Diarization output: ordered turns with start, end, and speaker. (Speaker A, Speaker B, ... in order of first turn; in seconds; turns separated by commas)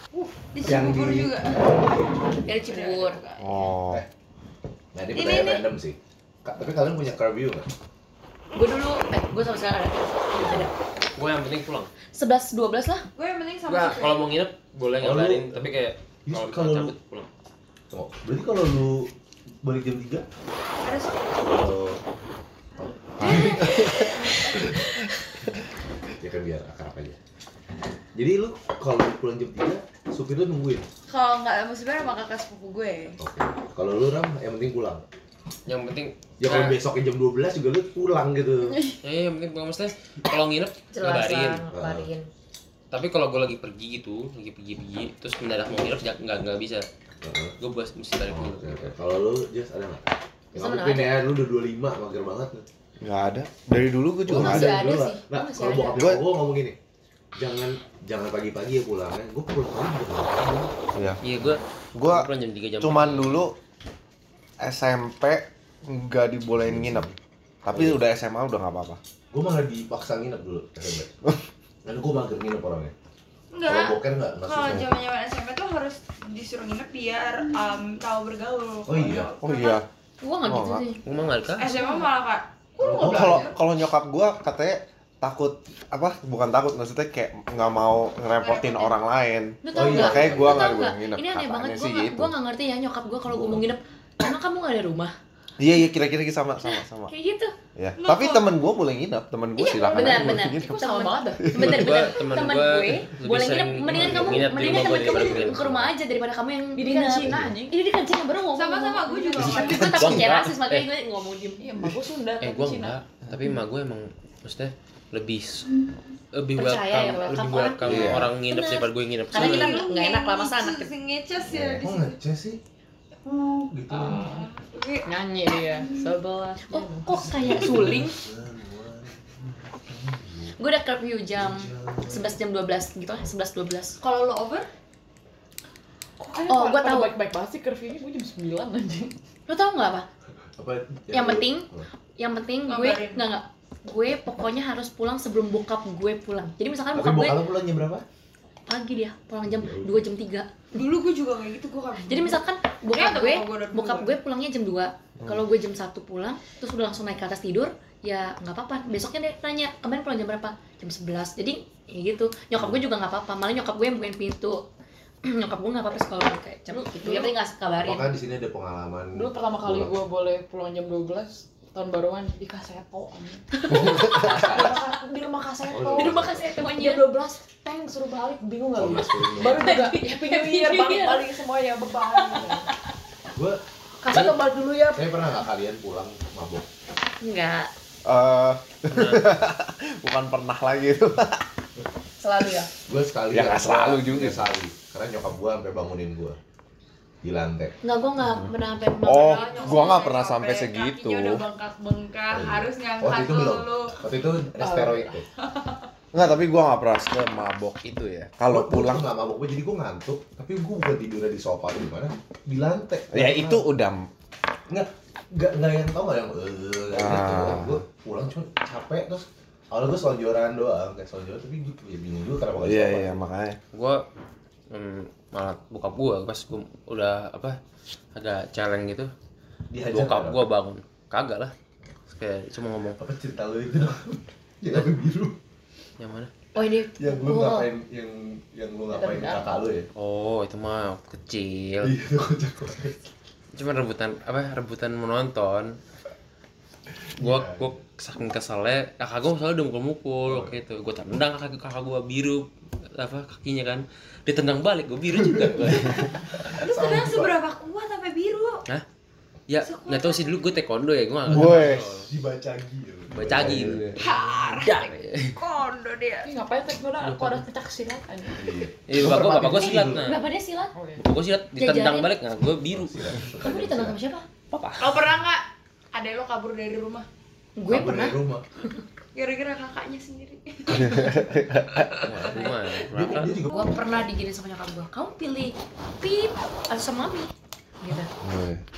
Speaker A: 0.5-3.7, Speaker B: 0.6-1.7, Speaker C: 2.5-3.2, Speaker D: 3.4-4.0, Speaker B: 4.9-7.7, Speaker A: 5.1-5.7, Speaker C: 8.5-10.7, Speaker B: 10.3-10.7, Speaker E: 11.2-11.9, Speaker C: 12.1-13.1, Speaker A: 13.1-14.3, Speaker E: 13.7-17.3, Speaker B: 15.0-16.9, Speaker B: 17.9-19.1, Speaker B: 19.6-20.2, Speaker A: 20.8-21.4, Speaker B: 21.4-22.0, Speaker B: 22.8-23.9, Speaker A: 23.2-24.4, Speaker D: 23.2-24.2, Speaker B: 26.2-27.2, Speaker B: 28.1-30.9, Speaker A: 31.1-33.2, Speaker B: 33.2-35.0, Speaker E: 35.6-36.8, Speaker B: 36.4-38.9, Speaker E: 39.0-41.6, Speaker C: 40.9-42.3, Speaker B: 41.7-42.1, Speaker E: 42.9-46.9, Speaker B: 47.2-47.5, Speaker E: 47.6-48.9, Speaker B: 48.3-52.6, Speaker C: 50.5-51.2, Speaker D: 53.0-54.9, Speaker B: 54.3-56.8, Speaker C: 54.3-56.1, Speaker D: 55.9-56.2, Speaker B: 57.4-60.7, Speaker D: 60.9-61.2, Speaker E: 61.2-63.4, Speaker D: 61.9-62.3, Speaker D: 62.8-63.5, Speaker D: 64.6-67.1, Speaker B: 66.6-67.2, Speaker D: 67.6-69.0, Speaker B: 67.7-68.0, Speaker B: 69.3-71.1, Speaker B: 71.8-72.9, Speaker A: 73.5-79.8, Speaker B: 73.6-74.9, Speaker B: 78.8-79.3, Speaker D: 79.4-79.8, Speaker C: 80.2-81.0, Speaker D: 80.4-80.8, Speaker E: 81.0-81.7, Speaker A: 81.5-83.5, Speaker C: 81.7-82.0, Speaker B: 82.8-83.5, Speaker D: 83.0-92.3, Speaker A: 88.3-88.9, Speaker C: 89.6-95.1, Speaker B: 89.7-90.7, Speaker B: 93.3-93.7, Speaker D: 95.6-97.1, Speaker C: 96.7-97.5, Speaker D: 97.8-101.9, Speaker A: 98.0-98.6, Speaker C: 99.6-111.7, Speaker F: 99.8-101.6, Speaker E: 100.0-100.5, Speaker E: 101.5-105.9, Speaker B: 104.0-104.2, Speaker F: 106.7-107.8, Speaker A: 108.5-109.8, Speaker D: 109.6-110.3, Speaker E: 109.7-110.9, Speaker F: 111.6-113.0, Speaker E: 112.4-119.9, Speaker C: 116.5-120.9, Speaker D: 117.8-118.3, Speaker A: 119.3-122.2, Speaker B: 121.5-122.6, Speaker B: 123.2-124.3, Speaker A: 123.9-125.1, Speaker F: 125.0-127.9, Speaker C: 126.6-128.2, Speaker B: 127.2-130.6, Speaker C: 130.6-134.0, Speaker B: 131.3-132.3, Speaker A: 134.0-134.7, Speaker F: 136.2-139.1, Speaker C: 136.5-137.1, Speaker C: 139.5-140.1, Speaker B: 140.6-141.9, Speaker C: 141.1-141.7, Speaker C: 142.2-147.4, Speaker A: 142.7-143.3, Speaker B: 146.9-148.0, Speaker C: 148.7-150.8, Speaker B: 149.4-150.0, Speaker A: 150.7-154.2, Speaker C: 152.1-164.6, Speaker C: 165.2-168.1, Speaker F: 166.8-167.3, Speaker B: 167.8-169.9, Speaker F: 169.1-182.7, Speaker B: 173.6-174.9, Speaker B: 175.7-176.4, Speaker C: 175.9-177.1, Speaker B: 178.7-179.8, Speaker C: 179.4-181.2, Speaker B: 183.3-183.6, Speaker A: 184.1-184.6, Speaker B: 184.9-186.7, Speaker C: 187.2-187.7, Speaker D: 188.0-191.4, Speaker E: 188.9-189.5, Speaker C: 192.2-192.7, Speaker B: 192.8-196.4, Speaker D: 193.3-194.4, Speaker B: 197.2-197.8, Speaker C: 197.8-199.9, Speaker D: 199.0-201.4, Speaker A: 199.1-204.0, Speaker B: 202.3-205.2, Speaker F: 204.6-205.2, Speaker D: 206.1-209.1, Speaker B: 208.5-213.6, Speaker D: 213.1-214.1, Speaker B: 214.7-223.2, Speaker D: 216.9-217.8, Speaker D: 222.6-223.6, Speaker E: 223.7-224.0, Speaker E: 224.7-227.6, Speaker E: 228.1-229.1, Speaker B: 229.7-230.4, Speaker E: 229.8-231.5, Speaker E: 232.1-233.0, Speaker B: 233.0-235.4, Speaker E: 236.0-236.3, Speaker C: 236.5-237.7, Speaker B: 236.9-239.9, Speaker A: 238.9-239.5, Speaker E: 239.9-241.9, Speaker B: 241.8-243.0, Speaker E: 243.5-245.8, Speaker E: 247.2-256.2, Speaker B: 247.2-247.7, Speaker B: 250.2-250.6, Speaker B: 255.2-257.4, Speaker A: 256.4-258.6, Speaker E: 259.5-262.1, Speaker A: 259.6-260.5, Speaker B: 261.2-263.9, Speaker D: 261.3-261.8, Speaker E: 263.1-263.9, Speaker D: 263.2-263.9, Speaker A: 263.9-266.3, Speaker E: 264.5-265.4, Speaker F: 266.2-268.6, Speaker E: 267.0-267.4, Speaker B: 268.3-270.1, Speaker E: 268.9-270.2, Speaker C: 269.7-270.7, Speaker F: 270.7-271.0, Speaker E: 271.0-273.1, Speaker C: 271.6-272.1, Speaker B: 272.6-274.0, Speaker C: 273.4-274.2, Speaker E: 274.5-275.0, Speaker A: 274.8-277.1, Speaker C: 277.6-278.2, Speaker B: 277.7-278.4, Speaker A: 279.1-281.2, Speaker D: 280.7-282.0, Speaker B: 281.7-283.7, Speaker E: 281.9-283.4, Speaker C: 283.5-288.1, Speaker D: 288.2-288.6